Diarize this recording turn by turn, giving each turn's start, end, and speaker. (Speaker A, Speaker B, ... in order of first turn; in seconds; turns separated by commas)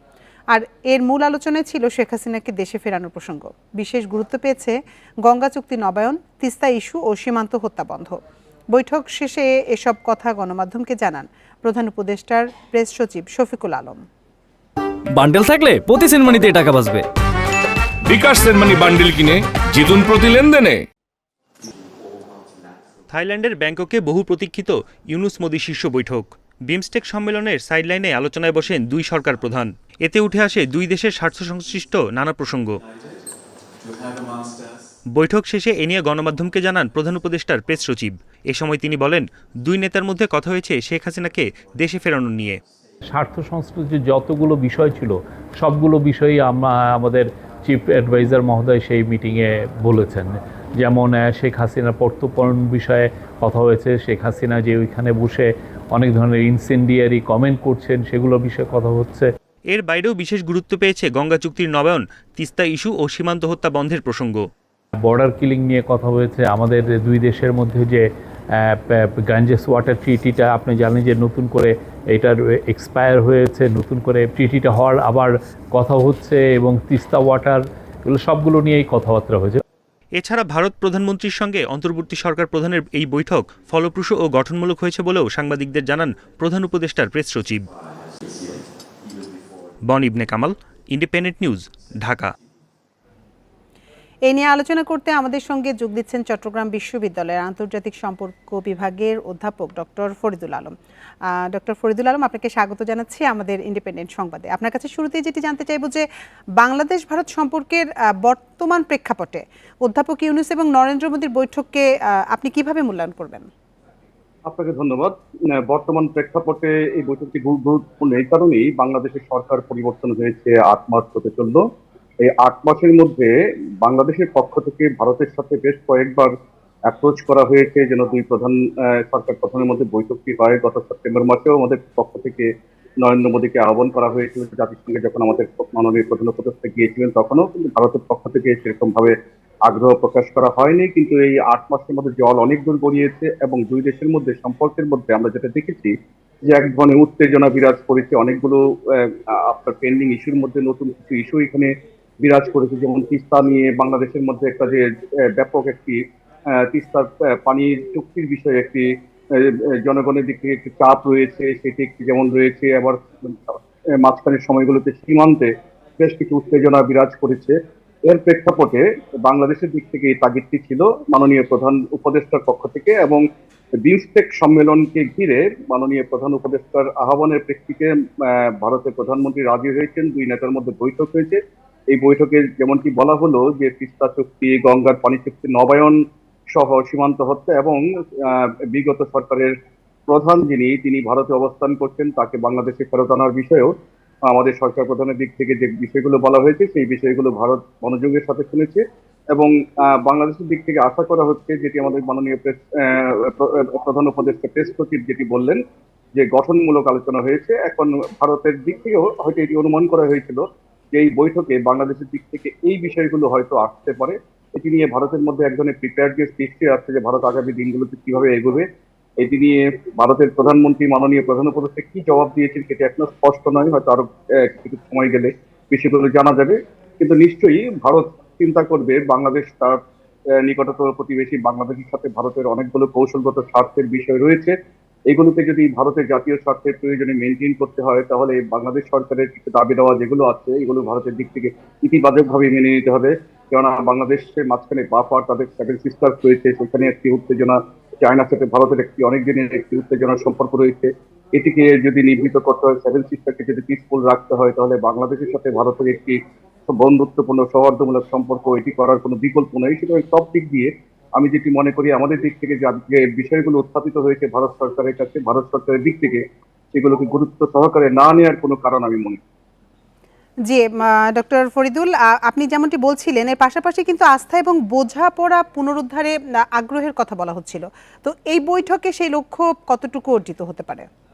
Speaker A: 0.5-8.2, Speaker A: 8.7-14.1, Speaker B: 15.1-17.1, Speaker C: 18.1-20.9, Speaker D: 23.1-32.8, Speaker D: 35.1-42.6, Speaker E: 43.1-59.3, Speaker D: 59.7-64.4, Speaker E: 65.0-68.1, Speaker E: 68.6-79.6, Speaker D: 80.2-87.7, Speaker D: 89.9-92.3, Speaker A: 94.2-106.1, Speaker A: 106.6-113.5, Speaker F: 114.5-121.6, Speaker F: 122.2-126.3, Speaker F: 126.9-132.5, Speaker F: 133.0-139.1, Speaker F: 139.7-145.9, Speaker F: 146.4-156.0, Speaker F: 156.5-173.2, Speaker F: 173.8-181.4, Speaker F: 181.9-186.0, Speaker F: 186.5-189.5, Speaker F: 190.1-193.7, Speaker F: 194.3-198.8, Speaker F: 199.3-205.6, Speaker F: 206.1-210.4, Speaker F: 210.9-218.7, Speaker F: 219.2-229.8, Speaker F: 230.3-234.6, Speaker F: 235.1-269.2, Speaker A: 270.5-280.9